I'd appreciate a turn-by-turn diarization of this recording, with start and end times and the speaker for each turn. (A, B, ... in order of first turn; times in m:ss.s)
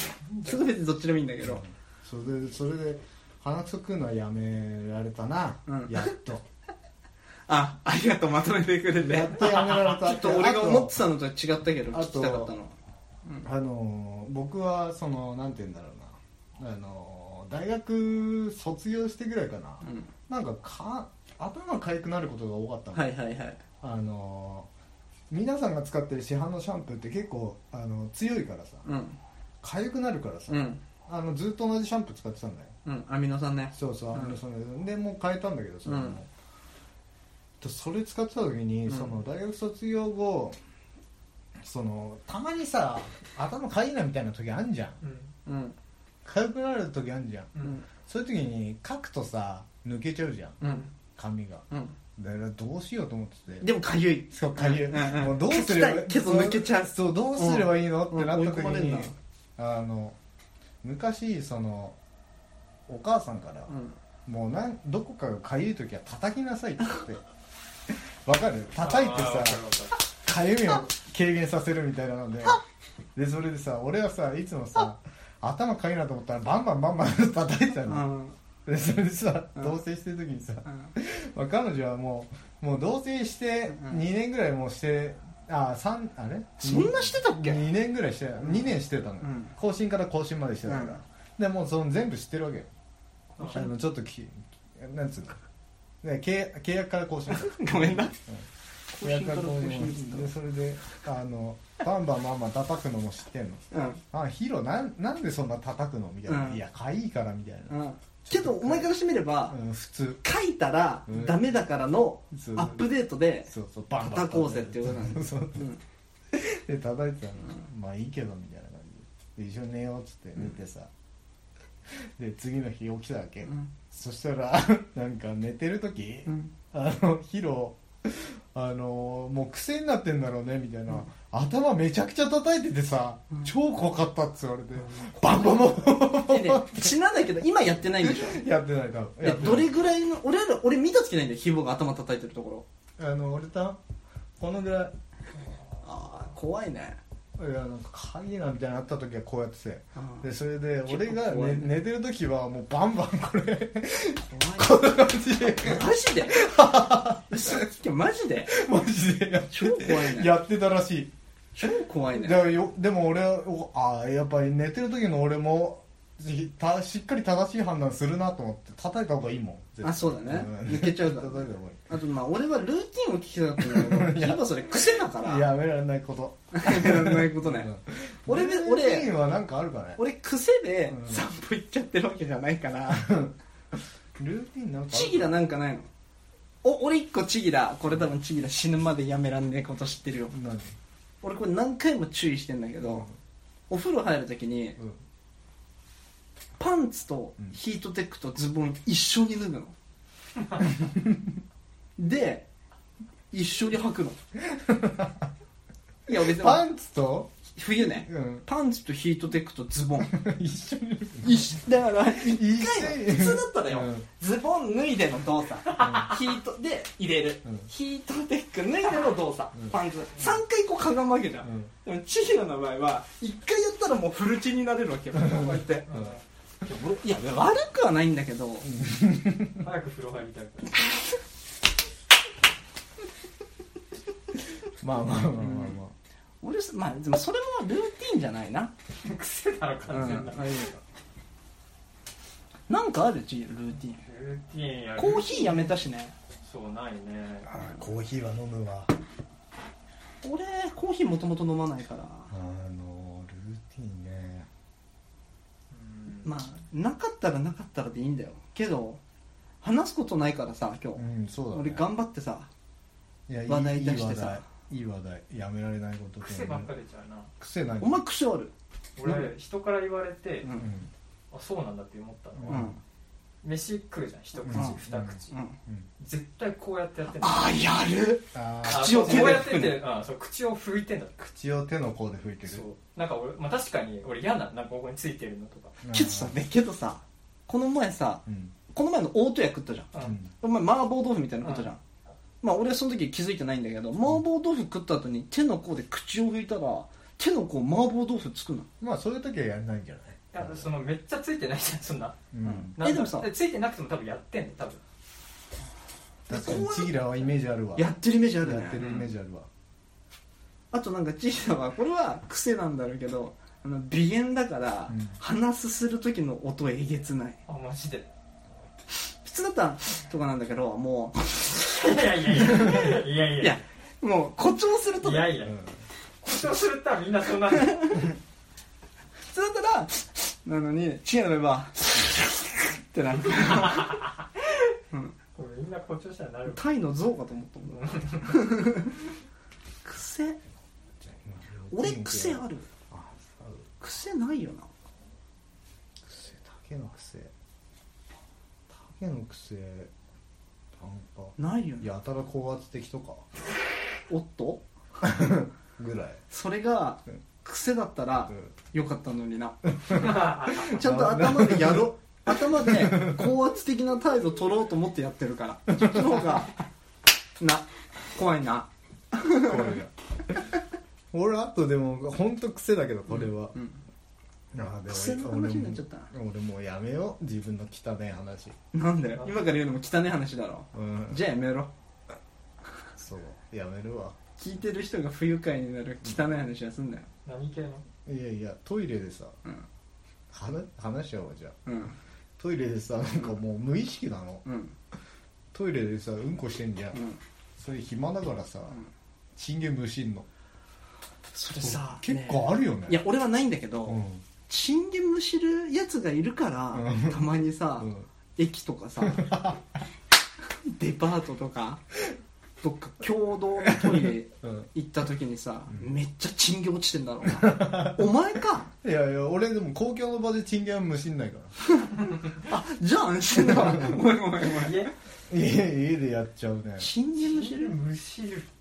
0:00.4-0:01.6 A
0:01.4-0:06.4 B
0:05.7-0:06.1 A
0:07.5-0:12.7 A
0:09.0-0:11.0 B
0:11.9-0:12.5 B
0:13.4-0:23.2 B
0:19.8-0:20.1 A
0:22.9-0:23.6 A
0:23.8-0:24.7 B
0:25.3-0:28.9 B
0:28.8-0:29.2 A
0:29.6-0:32.8 B
0:30.5-0:30.8 A
0:32.8-0:34.4 A
0:33.7-0:36.3 B
0:35.8-0:36.2 A
0:37.6-0:40.6 B
0:38.9-0:39.2 A
0:41.6-0:45.0 B
0:45.0-0:45.3 C
0:45.5-0:45.8 A
0:46.2-0:50.6 B
0:50.6-0:50.9 A
0:50.6-0:50.9 C
0:51.2-0:51.6 B
0:51.7-0:52.0 A
0:52.2-0:53.7 B
0:53.6-0:59.2 A
0:54.3-1:00.2 B
1:00.8-1:02.0 B
1:02.9-1:03.7 B
1:03.7-1:04.0 A
1:04.3-1:07.2 B
1:07.9-1:09.6 B
1:08.8-1:10.0 C
1:10.2-1:12.6 B
1:13.2-1:18.1 B
1:17.9-1:18.4 A
1:18.7-1:32.7 B
1:23.7-1:24.0 A
1:26.6-1:27.6 A
1:29.2-1:29.5 A
1:30.6-1:31.0 A
1:33.4-1:33.7 A
1:33.4-1:35.4 B
1:36.0-1:38.5 B
1:37.3-1:38.2 A
1:38.9-1:40.3 A
1:39.0-1:48.9 B
1:43.7-1:44.0 A
1:46.3-1:46.6 A
1:47.7-1:49.6 A
1:49.5-1:50.2 B
1:50.2-1:55.8 A
1:51.1-1:51.5 B
1:52.3-1:52.9 B
1:53.5-1:55.7 B
1:56.3-2:00.9 B
2:02.2-2:16.9 B
2:06.3-2:06.5 A
2:16.1-2:18.4 A
2:18.0-2:19.7 B
2:19.2-2:22.7 A
2:23.0-2:23.8 B
2:24.4-2:24.9 B
2:25.8-2:27.0 A
2:27.4-2:37.6 B
2:30.0-2:30.3 A
2:30.8-2:31.8 A
2:34.2-2:34.8 A
2:35.5-2:36.4 A
2:37.3-2:38.6 A
2:38.5-2:41.1 B
2:39.5-2:40.4 A
2:41.6-2:42.5 A
2:42.1-2:51.9 B
2:49.8-2:55.5 A
2:53.6-3:00.0 B
2:56.5-2:57.7 A
2:58.3-2:59.1 A
3:00.0-3:03.2 A
3:00.9-3:01.3 B
3:02.9-3:05.4 B
3:04.9-3:05.9 A
3:06.6-3:10.4 A
3:10.3-3:10.8 B
3:11.2-3:13.1 A
3:12.8-3:13.1 B
3:13.7-3:14.8 A
3:16.6-3:19.8 A
3:20.8-3:21.3 B
3:22.0-3:22.5 A
3:23.3-3:24.2 A
3:24.5-3:25.3 B
3:26.1-3:26.7 A
3:26.1-3:28.5 B
3:27.6-3:30.2 A
3:30.0-3:31.6 B
3:31.2-3:45.9 A
3:32.2-3:34.1 B
3:35.8-3:36.2 B
3:41.4-3:41.7 B
3:45.2-3:46.9 C
3:45.3-3:46.1 B
3:46.8-3:48.7 A
3:48.6-3:49.7 B
3:49.6-3:50.7 C
3:54.8-3:55.9 B
3:55.4-3:55.8 A
3:56.4-3:58.7 A
3:59.0-4:00.6 C
3:59.9-4:00.8 A
4:02.7-4:04.0 A
4:04.0-4:05.7 C
4:05.0-4:06.1 A
4:06.4-4:07.5 C
4:07.5-4:08.9 B
4:10.2-4:12.3 A
4:12.3-4:14.5 B
4:15.7-4:16.3 C
4:16.2-4:19.0 A
4:19.6-4:22.5 A
4:21.0-4:21.9 B
4:23.3-4:26.7 B
4:23.5-4:24.4 A
4:26.2-4:27.3 C
4:27.4-4:28.0 B
4:27.8-4:28.5 A
4:29.0-4:30.5 C
4:30.6-4:30.9 B
4:31.3-4:32.7 C
4:32.4-4:32.8 B
4:32.5-4:32.8 A
4:33.4-4:35.4 C
4:34.4-4:35.9 B
4:34.5-4:35.6 A
4:36.0-4:37.6 C
4:37.2-4:39.8 A
4:38.3-4:39.6 B
4:38.7-4:41.3 C
4:41.3-4:42.6 B
4:42.5-4:45.8 C
4:45.8-4:46.4 B
4:45.9-4:51.8 A
4:48.3-4:48.5 B
4:50.0-4:50.3 B
4:51.4-4:51.7 C
4:52.4-4:58.7 A
4:58.8-5:00.7 B
5:00.3-5:04.8 C
5:02.3-5:02.7 B
5:02.4-5:03.3 A
5:06.3-5:09.5 B
5:06.3-5:07.0 A
5:07.8-5:08.8 A
5:08.8-5:09.1 C
5:10.7-5:17.4 A
5:14.9-5:15.2 B
5:17.5-5:18.1 C
5:19.2-5:21.7 A
5:21.6-5:23.6 C
5:22.4-5:22.8 A
5:23.4-5:25.3 A
5:25.0-5:25.6 C
5:25.4-5:25.8 B
5:26.2-5:28.1 C
5:27.8-5:28.1 A
5:29.3-5:34.0 A
5:33.4-5:34.6 C
5:35.3-5:36.6 C
5:36.5-5:39.0 A
5:37.8-5:38.4 C
5:39.8-5:40.4 A
5:41.0-5:43.7 B
5:41.7-5:42.7 A
5:43.8-5:44.7 A
5:46.1-5:47.3 B
5:48.7-5:49.9 B
5:50.8-5:53.2 B
5:51.4-5:51.9 A
5:54.1-5:54.6 A
5:55.0-5:56.2 B
5:56.3-6:06.5 A
5:59.8-6:03.3 B
6:00.0-6:00.7 C
6:05.8-6:06.4 B
6:07.4-6:09.8 A
6:09.3-6:10.4 B
6:11.1-6:13.6 B
6:13.1-6:13.8 A
6:14.5-6:18.6 B
6:14.9-6:16.1 A
6:18.7-6:21.7 A
6:20.7-6:21.2 B
6:23.0-6:24.2 B
6:24.4-6:27.1 A
6:27.2-6:27.8 C
6:28.0-6:29.4 B
6:30.3-6:31.6 B
6:31.6-6:32.0 A
6:32.4-6:34.5 B
6:34.4-6:34.7 A
6:35.5-6:37.0 B
6:36.9-6:37.2 A
6:37.6-6:38.8 B
6:39.4-6:40.3 B
6:41.3-6:49.4 A
6:41.6-6:43.0 B
6:43.9-6:44.2 B
6:46.7-6:48.1 B
6:49.0-6:49.6 B
6:50.6-6:51.8 A
6:52.6-6:58.7 A
6:53.6-6:54.7 B
6:57.3-6:58.1 B
6:58.8-7:01.5 B
7:01.8-7:04.9 A
7:03.4-7:04.0 B
7:04.5-7:04.9 C
7:05.3-7:06.9 B
7:06.8-7:07.8 A
7:07.2-7:08.5 C